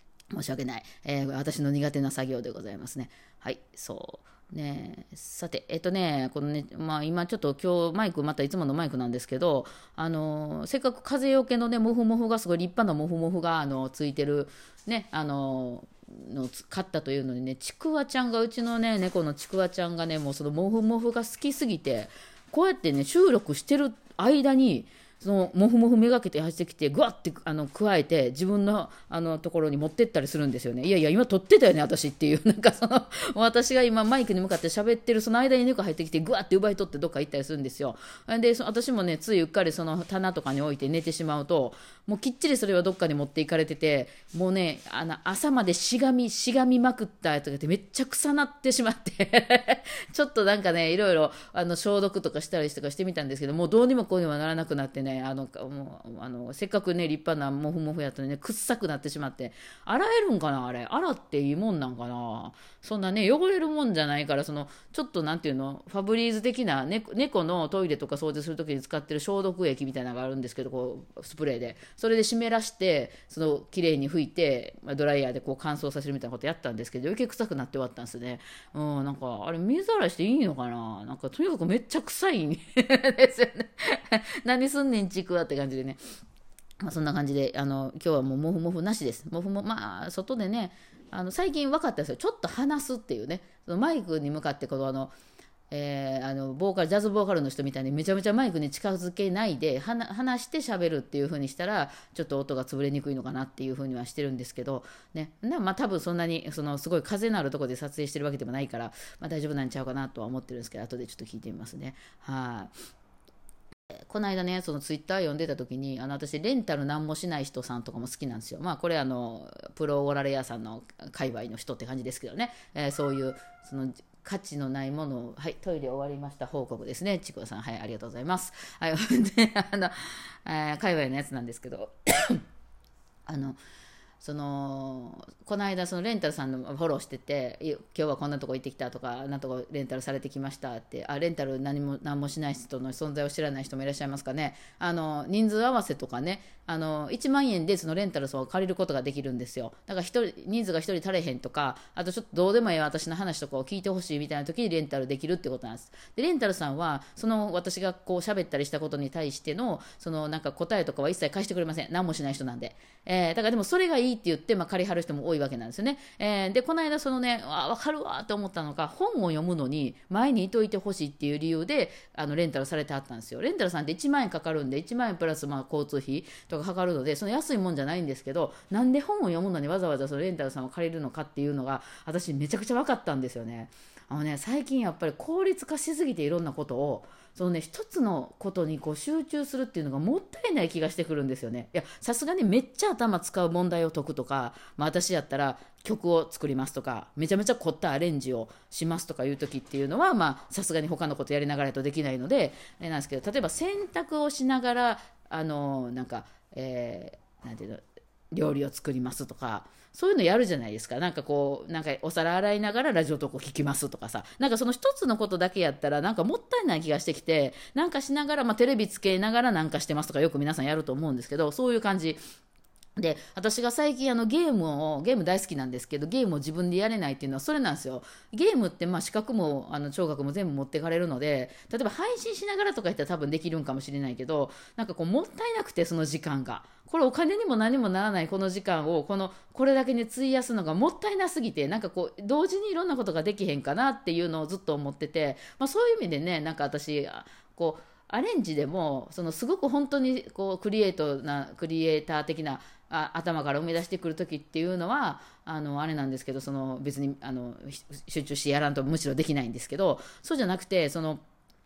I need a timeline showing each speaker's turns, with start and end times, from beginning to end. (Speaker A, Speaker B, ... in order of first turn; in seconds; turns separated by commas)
Speaker A: 0.3-86.0, Speaker A: 86.8-95.1, Speaker A: 95.7-112.7, Speaker A: 114.1-132.4, Speaker A: 133.3-133.6, Speaker A: 134.2-222.2, Speaker A: 223.0-261.2